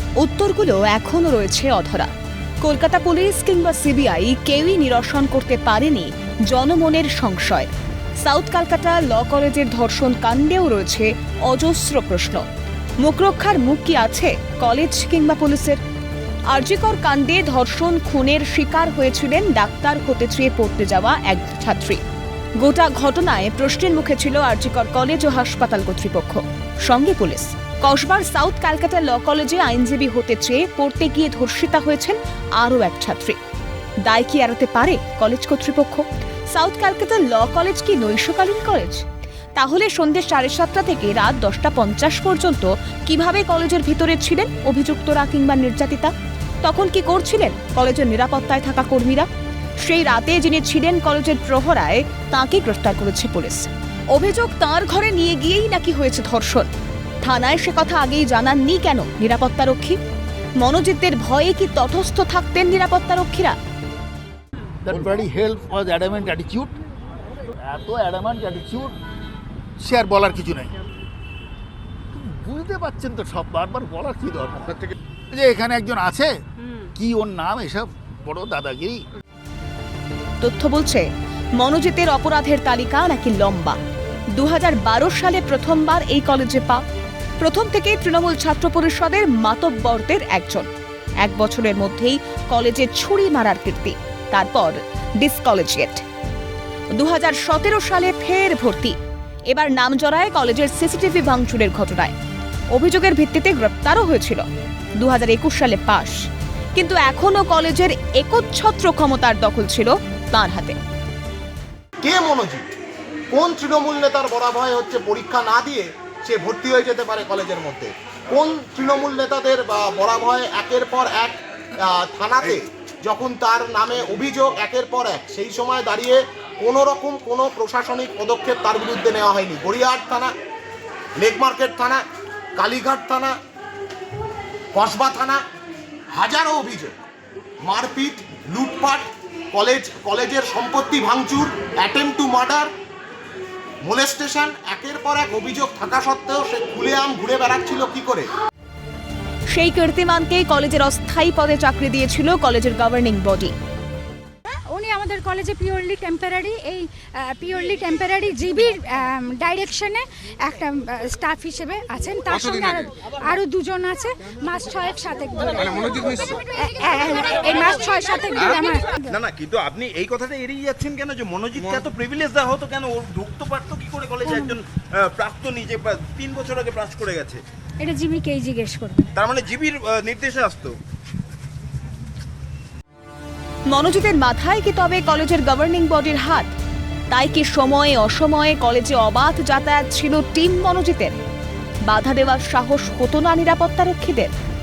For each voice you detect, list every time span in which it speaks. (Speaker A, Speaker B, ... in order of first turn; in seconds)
Speaker A: 0.2-2.1, 2.6-12.4, 13.0-15.8, 16.5-22.0, 22.6-33.4, 34.0-49.3, 49.8-56.7, 57.2-60.0, 60.6-63.6, 80.4-83.8, 84.3-86.8, 87.4-90.7, 91.2-96.0, 96.9-99.0, 99.5-102.2, 102.7-104.5, 105.0-106.2, 106.8-110.8, 149.5-153.5, 183.7-186.6, 187.1-191.2, 191.8-194.3
Speaker B: 64.8-66.8, 67.6-69.0, 69.8-70.8, 72.1-79.0
Speaker C: 112.0-112.7, 113.3-130.3, 131.2-132.0, 132.6-133.4, 134.7-135.4, 136.1-137.0, 137.6-142.7, 143.8-148.3
Speaker D: 154.5-169.1, 174.2-174.6, 177.8-179.1
Speaker E: 169.1-177.4, 179.2-180.8